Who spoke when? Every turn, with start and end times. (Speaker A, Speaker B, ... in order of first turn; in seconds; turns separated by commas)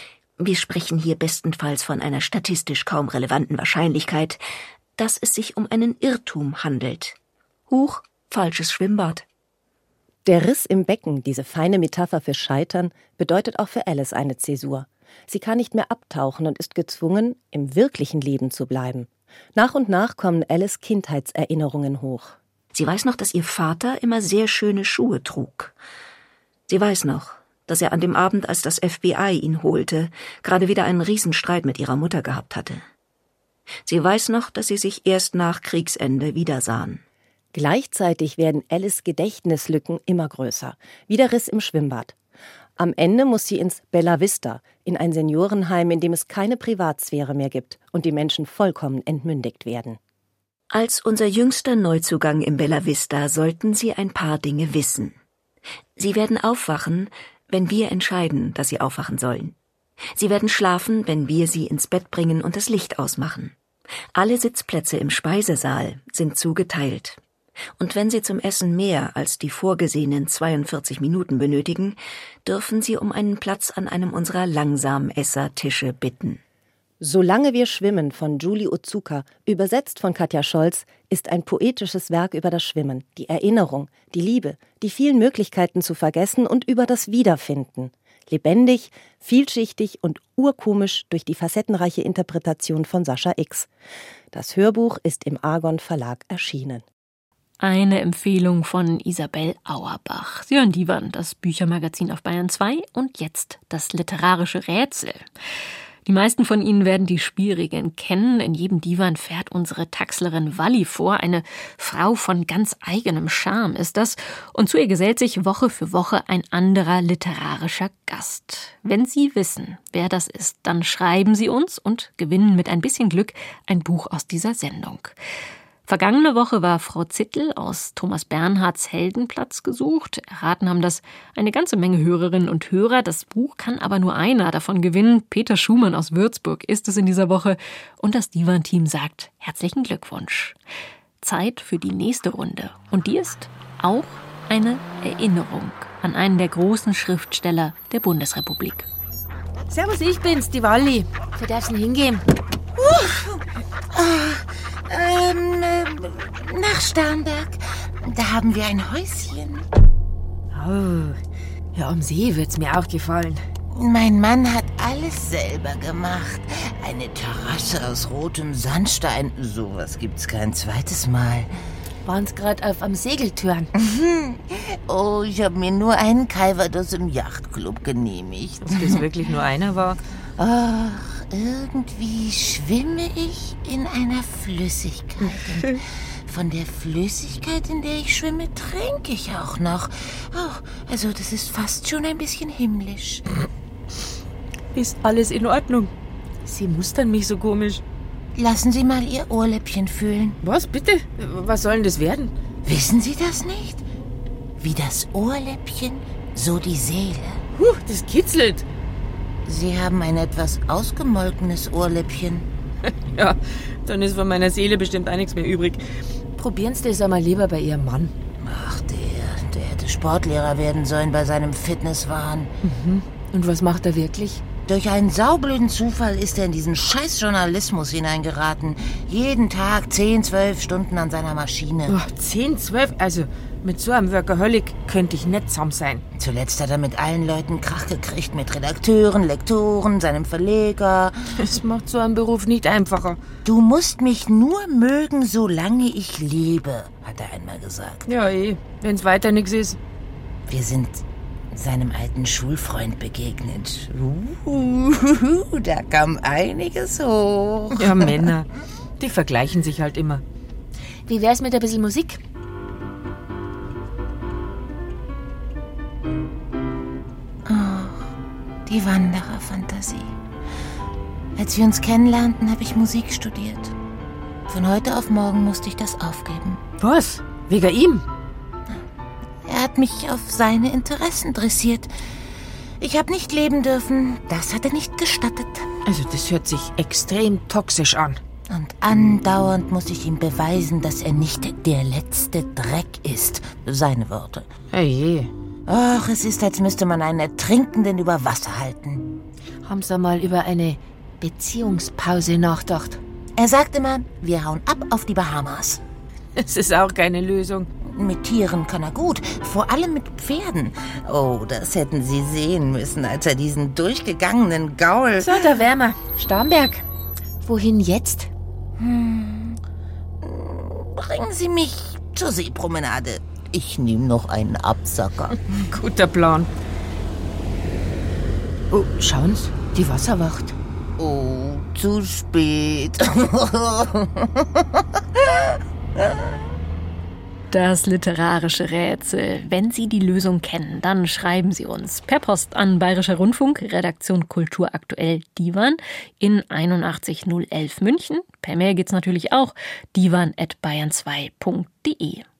Speaker A: 0.4-4.4, Speaker A: 5.0-7.2, Speaker A: 7.7-9.2, Speaker B: 10.2-22.4, Speaker A: 22.7-25.7, Speaker A: 26.7-32.8, Speaker A: 33.9-37.0, Speaker B: 37.5-42.1, Speaker B: 42.8-50.0, Speaker A: 50.7-55.2, Speaker A: 56.0-59.5, Speaker A: 60.1-63.5, Speaker A: 64.1-67.2, Speaker A: 67.8-76.4, Speaker B: 77.0-93.7, Speaker B: 94.3-96.8, Speaker C: 97.6-105.2, Speaker C: 106.0-125.2, Speaker C: 125.9-140.6, Speaker C: 141.2-148.9, Speaker D: 149.7-152.2, Speaker E: 152.8-153.4, Speaker E: 153.9-159.6, Speaker D: 160.5-161.2, Speaker D: 161.7-163.4, Speaker E: 163.7-171.5, Speaker D: 172.0-173.7, Speaker E: 173.7-179.1, Speaker D: 178.6-180.0, Speaker E: 180.4-185.7, Speaker D: 185.2-185.8, Speaker E: 186.3-193.2, Speaker D: 194.7-195.9, Speaker D: 196.4-197.8, Speaker E: 198.3-200.4, Speaker D: 200.4-202.3, Speaker E: 202.6-203.8, Speaker E: 204.6-207.4, Speaker D: 207.5-208.7, Speaker E: 209.4-212.5, Speaker D: 213.1-215.8, Speaker D: 216.3-218.1, Speaker E: 218.4-222.5, Speaker D: 222.6-224.4, Speaker E: 224.7-231.9, Speaker D: 231.9-236.0, Speaker E: 236.1-241.2, Speaker D: 241.4-243.2, Speaker E: 243.4-248.1, Speaker D: 248.1-249.8, Speaker E: 250.5-251.0, Speaker E: 251.5-258.3, Speaker D: 257.8-258.5, Speaker D: 259.0-260.2, Speaker D: 261.1-262.2, Speaker E: 267.4-268.1, Speaker E: 268.6-270.1, Speaker E: 271.4-273.7, Speaker E: 274.5-276.6, Speaker D: 276.8-278.1, Speaker E: 279.4-281.9, Speaker E: 282.8-285.7, Speaker D: 285.9-288.2, Speaker E: 288.5-294.5, Speaker D: 294.7-295.3, Speaker E: 295.7-299.1, Speaker D: 299.6-303.0, Speaker E: 303.4-305.8, Speaker D: 306.4-307.7, Speaker E: 307.9-315.4, Speaker D: 315.2-316.8, Speaker D: 317.4-318.3, Speaker E: 318.8-319.6, Speaker E: 320.2-325.6, Speaker D: 325.7-326.5, Speaker D: 328.7-330.6, Speaker E: 331.0-334.3, Speaker C: 337.5-352.2